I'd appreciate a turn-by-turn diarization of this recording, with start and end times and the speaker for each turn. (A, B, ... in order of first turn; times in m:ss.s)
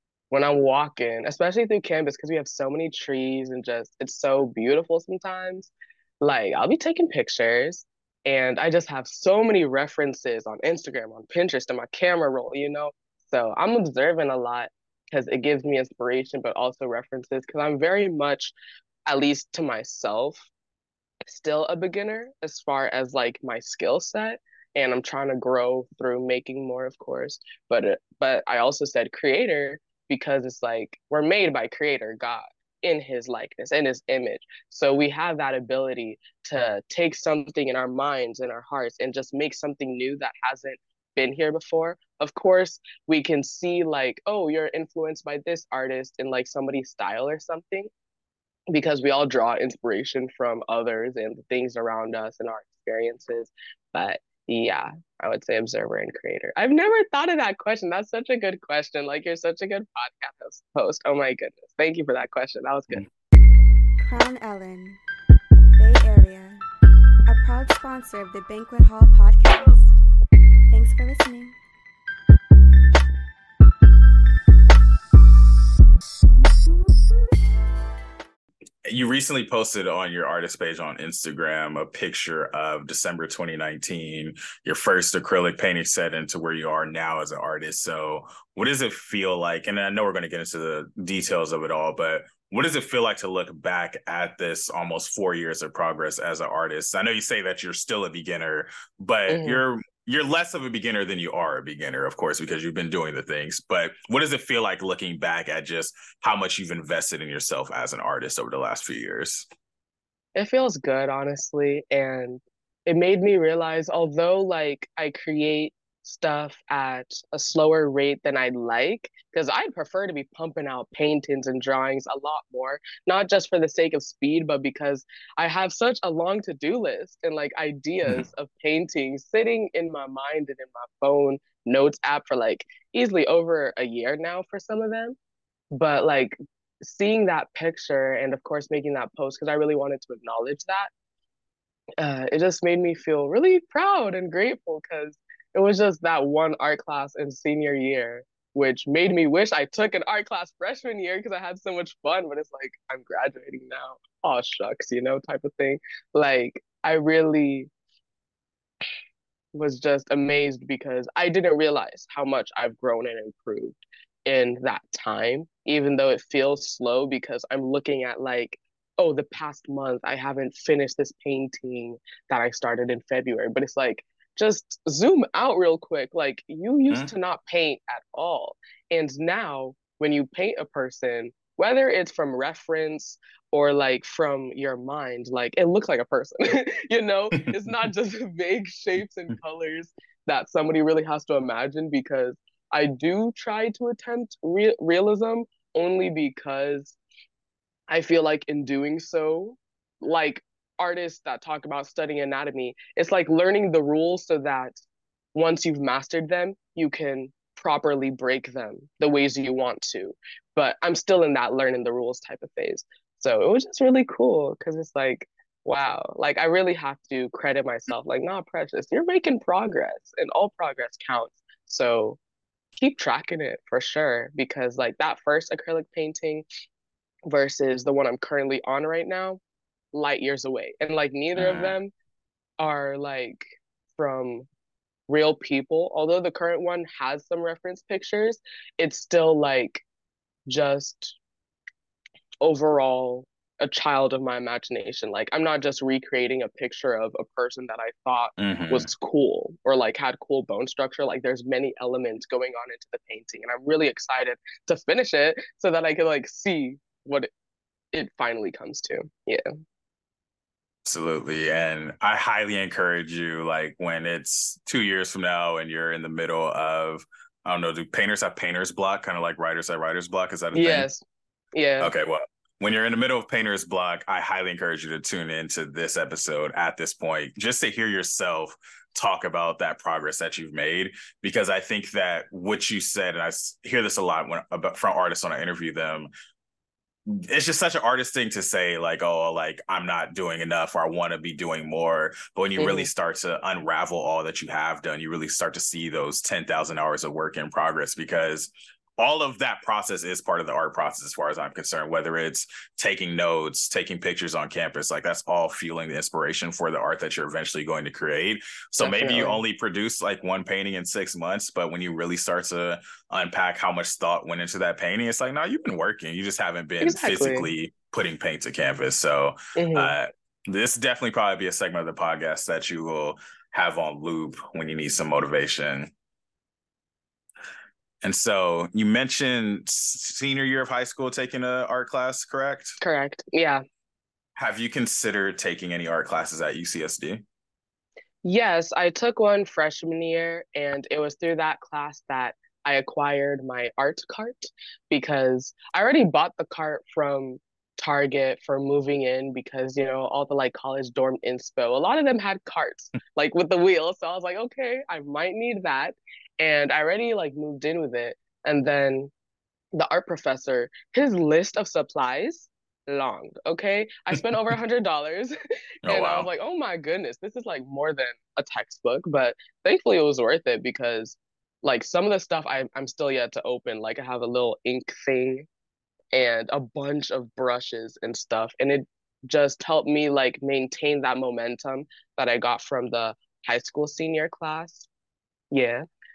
0:00.3-0:18.6 A
0:19.1-0:20.5 A
0:21.3-0:47.9 A
0:48.7-1:03.1 A
1:04.0-1:05.0 B
1:05.8-1:06.6 B
1:07.3-1:10.0 B
1:10.7-1:11.6 B
1:18.9-1:49.5 C
1:39.3-1:39.6 A
1:50.4-2:15.2 A
2:15.7-2:20.9 A
2:22.0-2:37.7 A
2:39.5-3:17.0 A
3:17.9-3:24.8 A
3:25.3-3:42.2 A
3:42.8-3:46.4 A
3:47.3-3:49.4 A
3:49.9-3:51.9 A
3:51.4-3:51.8 C
3:52.6-3:54.5 A
3:55.1-3:59.8 A
4:00.5-4:01.2 A
4:02.4-4:17.3 A
4:08.4-4:08.9 C
4:17.9-4:19.4 A
4:20.9-4:30.9 C
4:30.5-4:31.0 A
4:31.5-4:31.9 A
4:31.8-4:46.1 C
4:47.1-5:25.9 C
4:52.6-4:52.9 A
5:08.8-5:09.4 A
5:16.8-5:17.5 A
5:19.6-5:19.9 A
5:28.0-5:32.8 C
5:32.8-5:33.6 A
5:34.4-5:37.2 C
5:38.2-5:59.1 A
5:59.7-6:05.3 A
6:05.9-6:06.3 C
6:05.9-6:15.5 A
6:16.1-6:24.9 A
6:25.5-6:25.8 A